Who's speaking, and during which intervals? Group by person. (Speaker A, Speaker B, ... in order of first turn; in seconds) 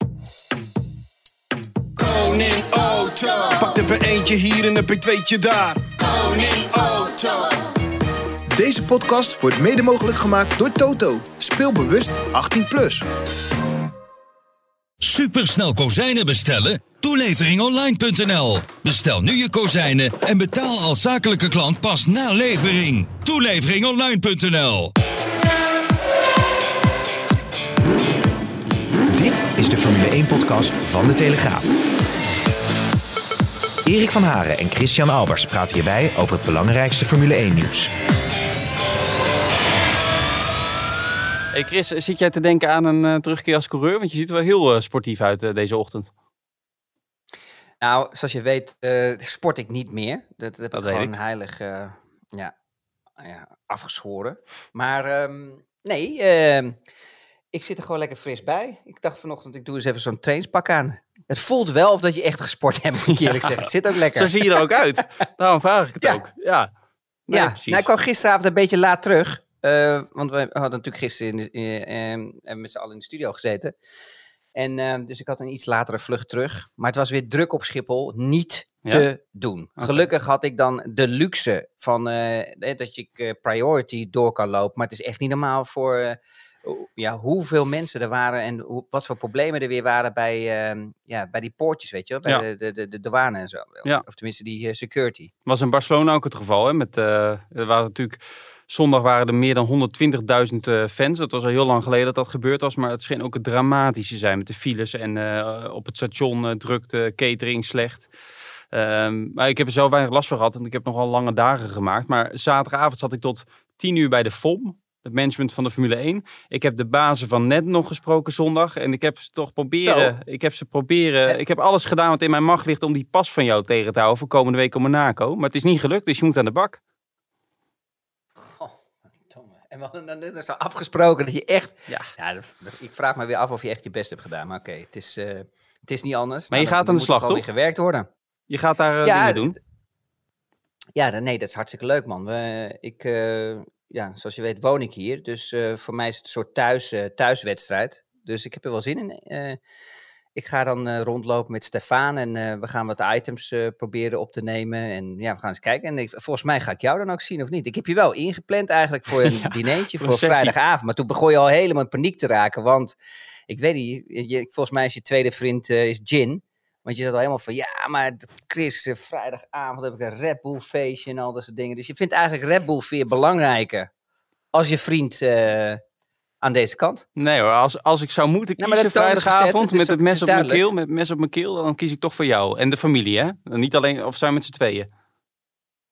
Speaker A: 2.0-7.6
Speaker B: 8.5-13.1
Speaker C: 15.0-24.9
Speaker D: 29.1-31.8, 33.9-37.9
Speaker E: 41.5-46.1, 50.7-51.1, 63.1-66.7, 67.3-67.9, 95.5-108.1, 108.7-126.8, 136.5-137.4, 138.5-139.6, 159.2-160.5, 177.2-184.9
Speaker F: 47.8-52.5, 53.2-56.8, 57.5-64.7, 67.3-73.8, 74.5-95.3, 119.8-120.2, 128.4-138.1, 139.0-139.6, 141.0-149.6, 150.3-163.0, 163.5-173.9, 174.5-175.8, 176.4-177.1, 178.6-180.6